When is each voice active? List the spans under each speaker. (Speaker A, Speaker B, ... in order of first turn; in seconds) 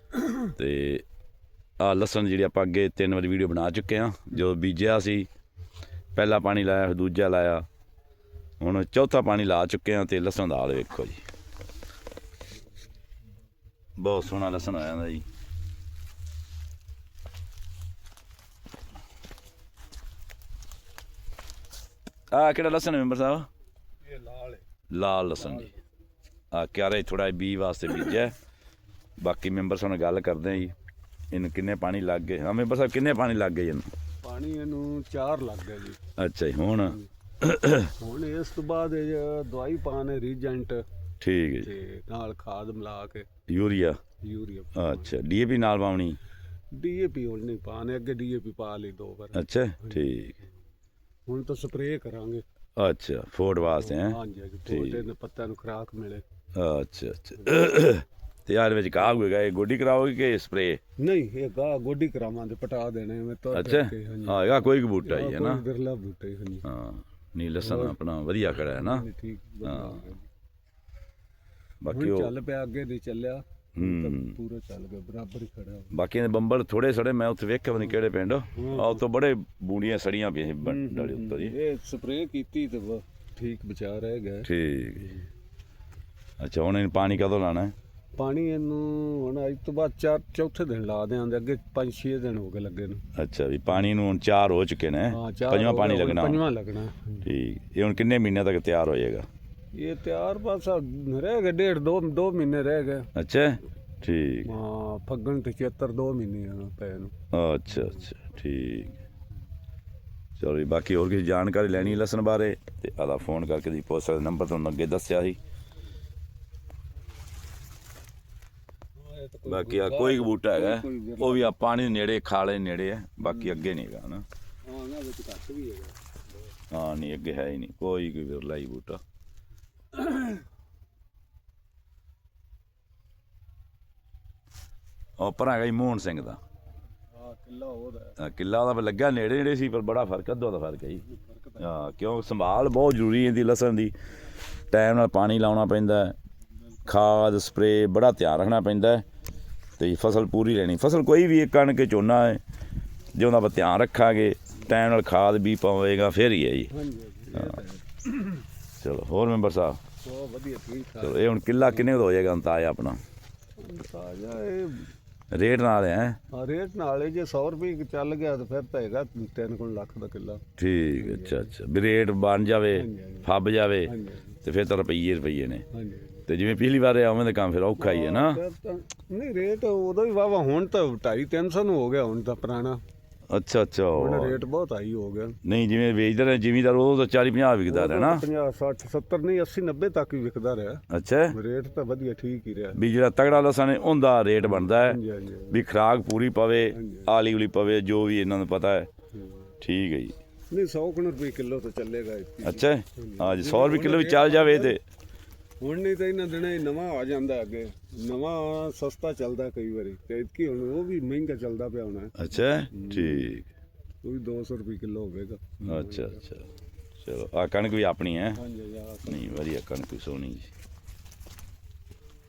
Speaker A: 0.4-1.0, 1.8-5.3, 6.1-7.6, 8.6-11.2, 14.0-15.2, 22.3-23.5, 24.9-25.7, 26.5-28.3, 29.2-30.7, 31.3-33.9, 36.2-37.9, 41.2-41.7, 43.5-44.0, 44.7-46.2, 49.3-50.4, 52.8-55.0, 56.5-60.8, 63.5-65.6, 66.6-69.0, 69.6-70.1, 71.8-72.3, 73.8-74.4, 75.9-81.5, 84.4-85.1, 86.4-87.7, 93.1-96.4, 97.2-99.3, 103.1-104.5, 107.3-109.0, 110.4-115.4, 119.5-124.2, 126.7-129.0, 135.2-136.4, 138.2-141.0, 141.6-143.9, 144.7-146.2, 146.8-149.0, 149.8-152.4, 153.1-156.7, 158.8-159.8, 161.0-163.0, 165.3-166.2, 170.6-175.6, 176.2-178.4, 183.3-184.4, 185.4-188.2, 190.9-191.3, 192.8-195.0, 195.5-198.9, 199.6-200.1, 202.4-204.8, 212.2-213.5, 215.6-216.4, 217.0-218.4, 219.0-220.5
Speaker B: 24.0-24.6, 25.4-25.7, 34.2-36.0, 38.0-40.8, 41.6-43.3, 44.2-45.1, 46.7-50.0, 51.3-52.4, 53.7-56.2, 61.0-66.7, 67.6-68.0, 68.6-70.3, 71.9-75.9, 78.5-79.0, 80.6-84.5, 88.2-93.0, 95.1-97.3, 99.7-103.1, 104.4-107.1, 119.0-121.6, 123.2-123.7, 124.7-126.0, 129.9-130.4, 137.1-138.2, 141.0-141.7, 156.7-158.4, 160.0-161.9, 163.6-164.9, 166.3-170.4, 170.9-171.5, 172.7-173.3, 173.8-174.3, 175.7-176.2, 177.8-182.8, 183.9-185.4, 187.7-192.8, 194.4-195.6, 196.7-197.1, 199.1-199.5, 200.5-204.8, 205.6-212.1, 212.7-213.3, 214.0-216.4, 218.3-219.4